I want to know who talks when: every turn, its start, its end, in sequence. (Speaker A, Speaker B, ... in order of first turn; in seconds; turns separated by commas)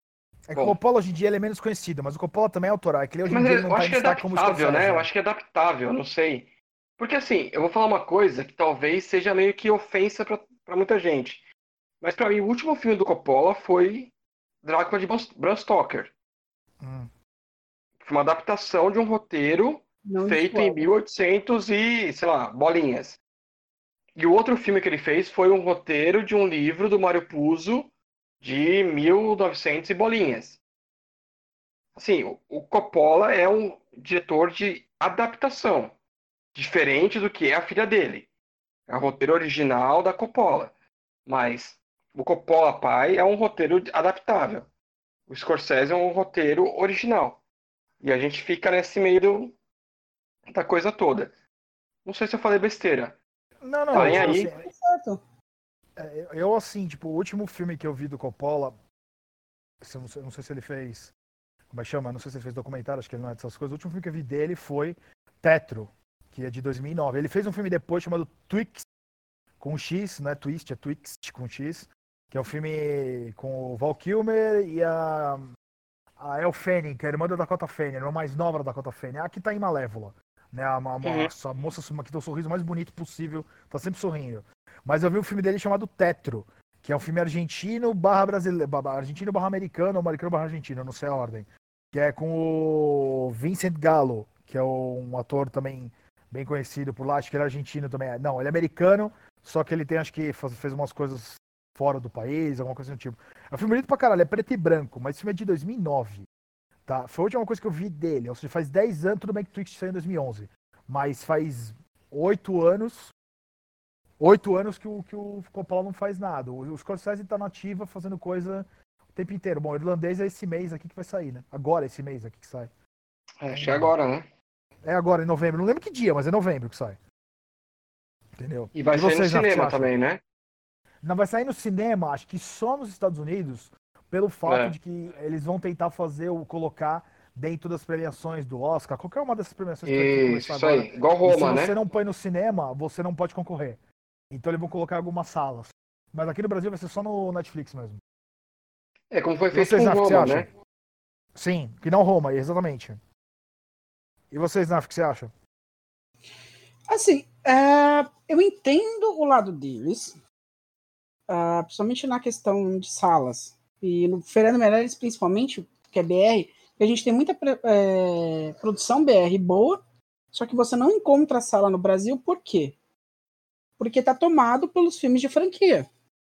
Speaker A: 0.5-5.1, Speaker B: 3.3-11.4, Speaker B: 12.0-16.1, Speaker A: 16.8-17.1, Speaker B: 18.0-23.2, Speaker C: 20.1-20.9, Speaker B: 24.2-30.6, Speaker B: 31.9-35.9, Speaker B: 36.5-38.3, Speaker B: 38.9-40.7, Speaker B: 41.3-44.7, Speaker B: 45.3-47.4, Speaker B: 48.0-49.5, Speaker B: 50.5-51.3, Speaker B: 52.0-53.2, Speaker A: 53.6-54.6, Speaker B: 53.9-54.5, Speaker C: 54.0-55.2, Speaker A: 56.0-58.8, Speaker A: 59.8-61.1, Speaker A: 61.7-68.9, Speaker A: 69.6-75.5, Speaker A: 76.2-106.3, Speaker B: 81.0-81.3, Speaker A: 106.9-113.1, Speaker A: 114.2-122.7, Speaker B: 123.4-124.2, Speaker A: 123.5-123.9, Speaker A: 124.8-127.0, Speaker A: 128.4-129.9, Speaker B: 128.7-130.2, Speaker A: 131.0-143.8, Speaker B: 134.5-134.8, Speaker B: 139.9-141.7, Speaker A: 144.3-148.0, Speaker B: 149.1-150.5, Speaker A: 149.5-150.5, Speaker A: 151.3-153.0, Speaker A: 154.3-155.3, Speaker C: 156.9-160.2, Speaker C: 161.3-169.8, Speaker C: 170.3-172.8, Speaker C: 173.8-175.9